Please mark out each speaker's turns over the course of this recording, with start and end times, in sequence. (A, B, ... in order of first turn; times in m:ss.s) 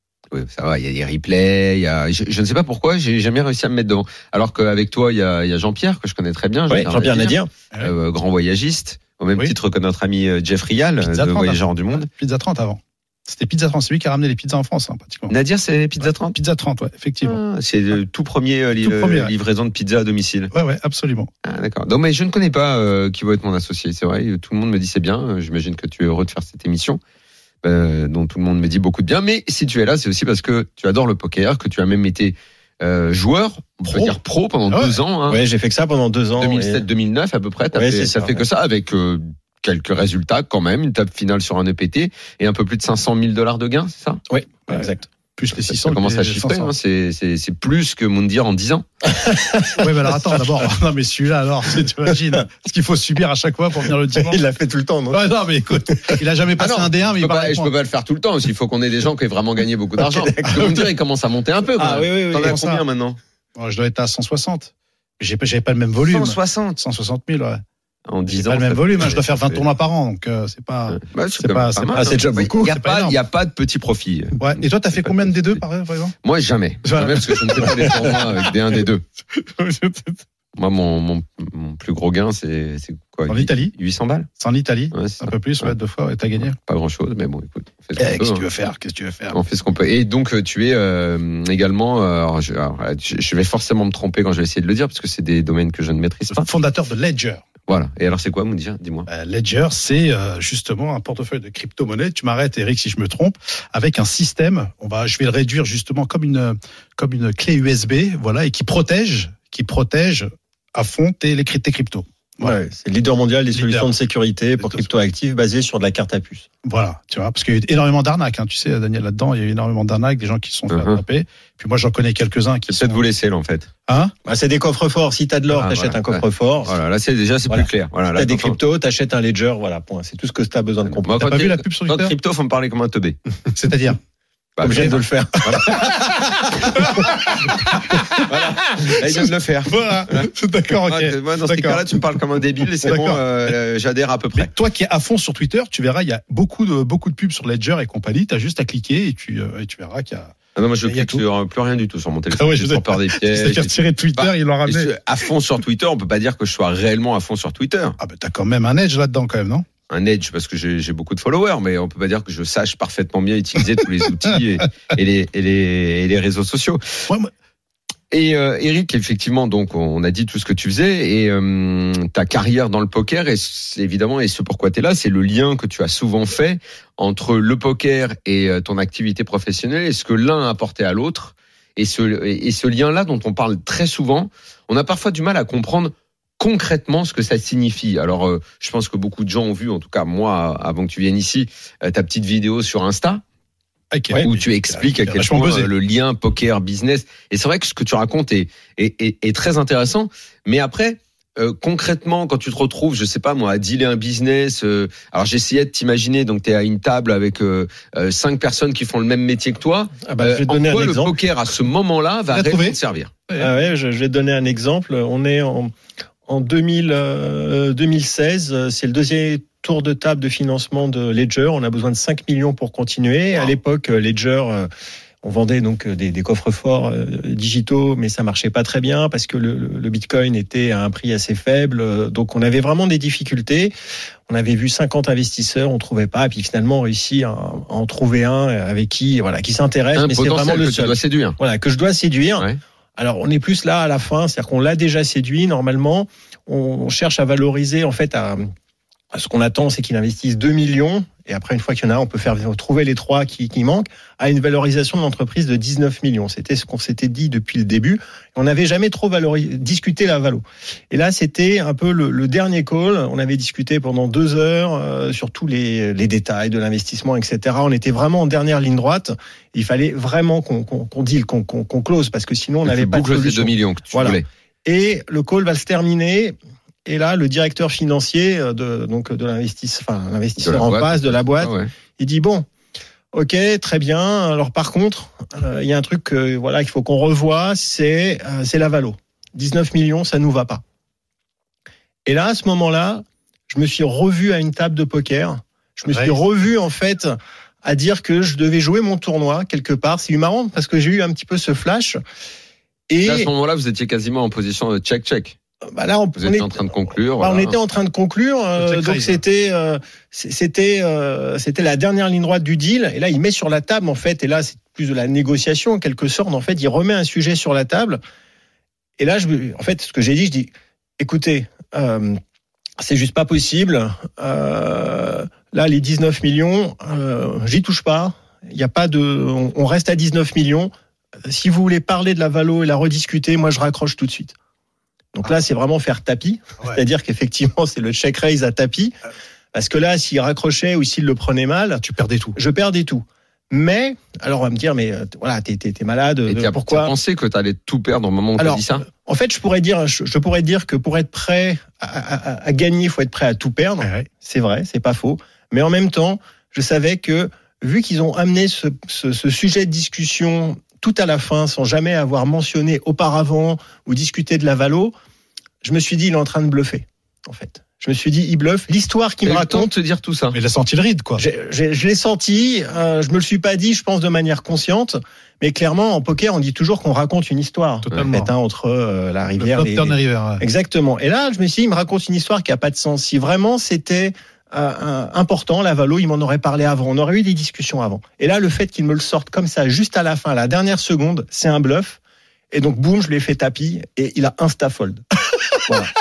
0:00.3-0:12.1 A
0:06.7-0:07.5 B
0:11.0-0:15.4 C
0:15.3-0:16.4 A
0:16.0-0:17.4 C
0:17.2-0:20.5 A
0:18.8-0:19.3 C
0:20.5-0:21.3 C
0:21.4-0:27.0 A
0:27.6-0:35.4 A
0:33.9-0:34.2 C
0:34.7-0:35.0 C
0:35.3-0:36.8 B
0:36.4-0:44.2 A
0:37.7-0:38.4 B
0:44.3-0:45.0 B
0:44.7-0:46.7 C
0:45.6-0:48.8 A
0:49.1-0:50.1 B
0:49.8-0:54.4 C
0:54.2-0:55.3 B
0:55.1-0:57.7 C
0:56.6-1:03.2 A
1:00.0-1:00.9 B
1:01.8-1:02.8 B
1:02.4-1:02.8 C
1:03.6-1:07.6 C
1:06.0-1:06.8 A
1:08.1-1:09.6 A
1:08.2-1:12.1 C
1:10.9-1:15.5 A
1:11.9-1:12.7 B
1:12.6-1:13.2 C
1:14.4-1:16.2 C
1:16.2-1:19.0 A
1:16.8-1:18.8 C
1:19.3-1:20.2 C
1:20.6-1:24.3 A
1:23.3-1:23.7 C
1:24.4-1:26.6 C
1:24.9-1:25.7 A
1:26.5-1:28.4 A
1:28.0-1:29.4 C
1:29.3-1:36.5 A
1:36.3-1:37.4 C
1:37.7-1:39.1 A
1:39.1-1:52.6 C
1:52.4-1:56.5 B
1:53.5-1:53.9 C
1:54.6-1:54.9 C
1:56.6-2:03.0 C
2:00.7-2:01.0 A
2:02.7-2:03.7 A
2:03.9-2:04.1 C
2:04.2-2:06.7 B
2:05.5-2:08.6 A
2:07.5-2:11.2 B
2:10.9-2:13.2 A
2:11.2-2:12.1 C
2:13.6-2:14.0 C
2:14.6-2:16.2 A
2:14.6-2:16.1 B
2:16.7-2:18.0 C
2:16.8-2:17.1 B
2:18.3-2:20.3 A
2:19.1-2:21.8 C
2:20.8-2:24.5 A
2:22.8-2:23.2 C
2:24.4-2:31.2 C
2:30.6-2:38.0 A
2:32.3-2:34.9 C
2:38.0-2:39.6 C
2:39.9-2:46.8 A
2:48.1-3:13.2 A
3:13.9-3:15.7 C
3:14.2-3:33.1 A
3:30.0-3:31.1 B
3:32.3-3:32.8 C
3:33.4-3:35.7 B
3:36.3-3:44.7 B
3:45.2-3:53.7 B
3:54.3-4:08.5 B
4:00.0-4:01.4 A
4:09.1-4:42.4 B
4:32.6-4:34.2 A
4:40.4-4:41.7 A
4:43.1-4:50.6 B
4:52.0-5:02.0 B
4:55.9-4:56.2 C
5:02.9-5:03.3 B
5:03.0-5:05.4 A
5:05.7-5:06.5 B
5:06.2-5:07.5 A
5:07.2-5:18.0 B
5:08.6-5:09.2 C
5:19.0-5:22.2 B
5:22.8-5:30.7 B
5:31.2-5:34.3 B
5:35.1-5:38.9 B
5:39.5-5:41.8 B
5:41.8-5:42.4 C
5:42.4-5:46.9 B
5:46.3-5:48.8 A
5:48.4-6:04.9 B
5:53.8-5:54.1 C
6:05.6-6:09.7 B
6:09.2-6:10.4 A
6:10.3-6:11.2 C
6:11.2-6:32.0 B
6:17.8-6:18.3 C
6:19.4-6:20.4 C
6:32.5-6:35.0 B
6:35.6-6:35.9 B